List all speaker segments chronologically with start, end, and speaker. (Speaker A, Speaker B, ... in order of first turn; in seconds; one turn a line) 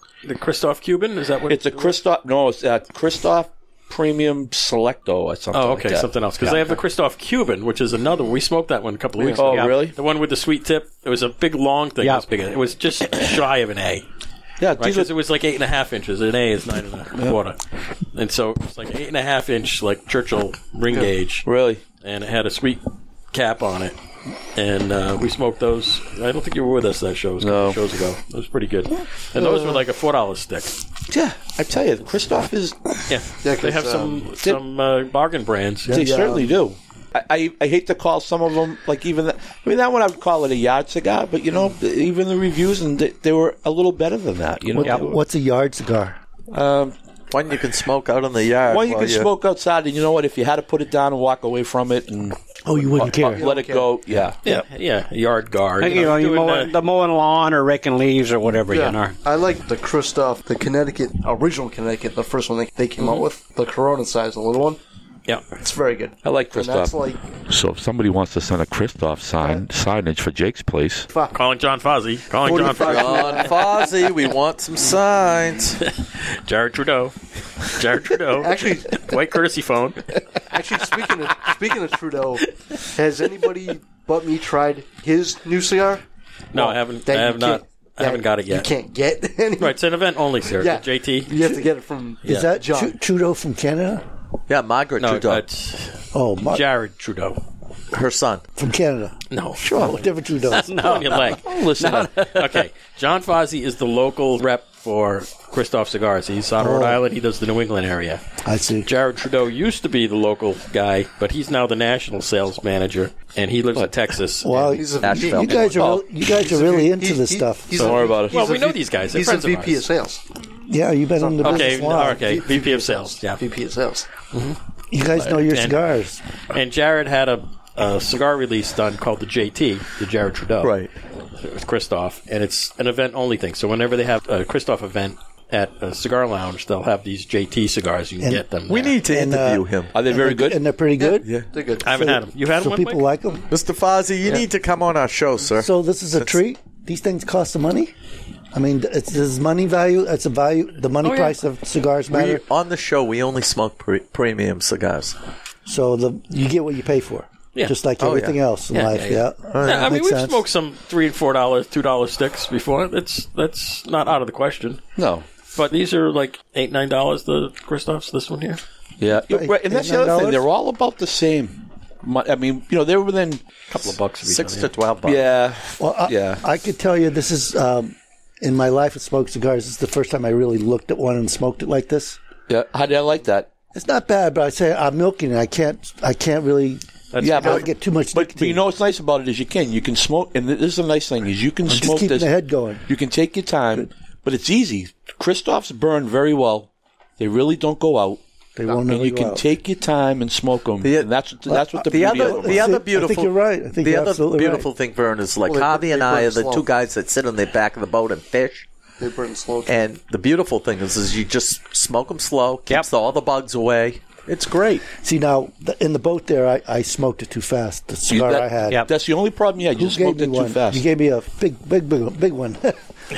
Speaker A: 0.2-1.9
Speaker B: 1.5-6.1
Speaker A: 5.5-14.1
Speaker C: 6.4-6.7
Speaker B: 9.2-9.9
Speaker C: 9.3-9.8
Speaker C: 12.0-12.2
Speaker B: 14.6-15.1
Speaker A: 14.8-17.6
Speaker A: 18.1-21.5
Speaker B: 21.4-21.8
Speaker A: 22.0-23.9
Speaker A: 24.5-30.7
Speaker B: 27.4-27.8
Speaker B: 31.1-32.8
Speaker A: 33.1-36.0
Speaker D: 33.4-34.3
Speaker D: 35.9-36.5
Speaker B: 35.9-45.2
Speaker E: 44.7-46.2
Speaker C: 44.8-45.0
Speaker B: 46.5-46.9
Speaker F: 47.3-49.3
Speaker B: 48.7-54.4
Speaker E: 52.6-53.4
Speaker D: 53.0-54.0
Speaker A: 54.4-56.8
Speaker C: 55.8-59.2
Speaker D: 58.7-64.8
Speaker A: 63.0-63.2
Speaker D: 65.5-67.2
Speaker B: 66.2-67.0
Speaker G: 67.5-71.1
Speaker D: 71.1-71.4
Speaker A: 71.3-73.5
Speaker D: 72.4-73.8
Speaker F: 72.8-75.8
Speaker A: 75.8-80.1
Speaker D: 78.4-79.1
Speaker D: 80.5-89.8
Speaker A: 86.5-88.7
Speaker A: 89.6-91.3
Speaker D: 90.5-93.0
Speaker E: 92.2-94.0
Speaker F: 94.5-95.4
Speaker A: 95.0-97.4
Speaker E: 96.1-96.7
Speaker F: 97.9-98.4
Speaker E: 98.5-100.7
Speaker A: 99.3-101.5
Speaker B: 99.6-100.0
Speaker C: 100.5-102.6
Speaker B: 101.1-102.3
Speaker A: 102.2-108.2
Speaker E: 106.6-107.0
Speaker E: 108.4-108.9
Speaker A: 108.8-114.8
Speaker E: 114.4-117.8
Speaker D: 114.7-120.2
Speaker F: 115.0-115.7
Speaker B: 115.7-116.0
Speaker B: 117.8-118.5
Speaker A: 117.8-119.8
Speaker E: 120.7-122.4
Speaker D: 121.2-124.1
Speaker A: 121.4-123.4
Speaker A: 124.3-124.6
Speaker E: 124.9-126.2
Speaker A: 125.1-125.8
Speaker A: 126.5-130.7
Speaker F: 130.6-130.9
Speaker A: 131.4-139.0
Speaker F: 138.7-139.9
Speaker E: 139.0-141.3
Speaker B: 139.9-140.6
Speaker D: 141.0-141.9
Speaker F: 141.2-141.5
Speaker A: 141.8-143.0
Speaker E: 141.8-143.5
Speaker F: 143.5-146.4
Speaker E: 145.6-147.9
Speaker E: 148.5-152.4
Speaker A: 151.0-151.4
Speaker F: 152.1-155.2
Speaker E: 155.7-160.4
Speaker F: 158.0-158.4
Speaker A: 158.7-164.8
Speaker F: 159.5-159.9
Speaker B: 164.9-165.2
Speaker A: 165.5-168.6
Speaker B: 169.0-173.4
Speaker E: 169.3-170.4
Speaker A: 173.7-174.7
Speaker F: 173.8-175.3
Speaker B: 175.0-176.4
Speaker E: 175.8-182.2
Speaker B: 182.5-183.5
Speaker E: 183.7-188.6
Speaker A: 187.1-187.7
Speaker B: 187.2-192.3
Speaker E: 191.7-192.8
Speaker B: 192.9-198.2
Speaker E: 198.6-199.4
Speaker B: 198.8-202.7
Speaker F: 200.8-201.1
Speaker E: 201.5-204.7
Speaker F: 201.8-208.7
Speaker D: 205.4-206.7
Speaker D: 209.0-209.9
Speaker F: 209.7-214.9
Speaker E: 215.0-218.8
Speaker B: 218.1-220.8
Speaker E: 219.7-222.8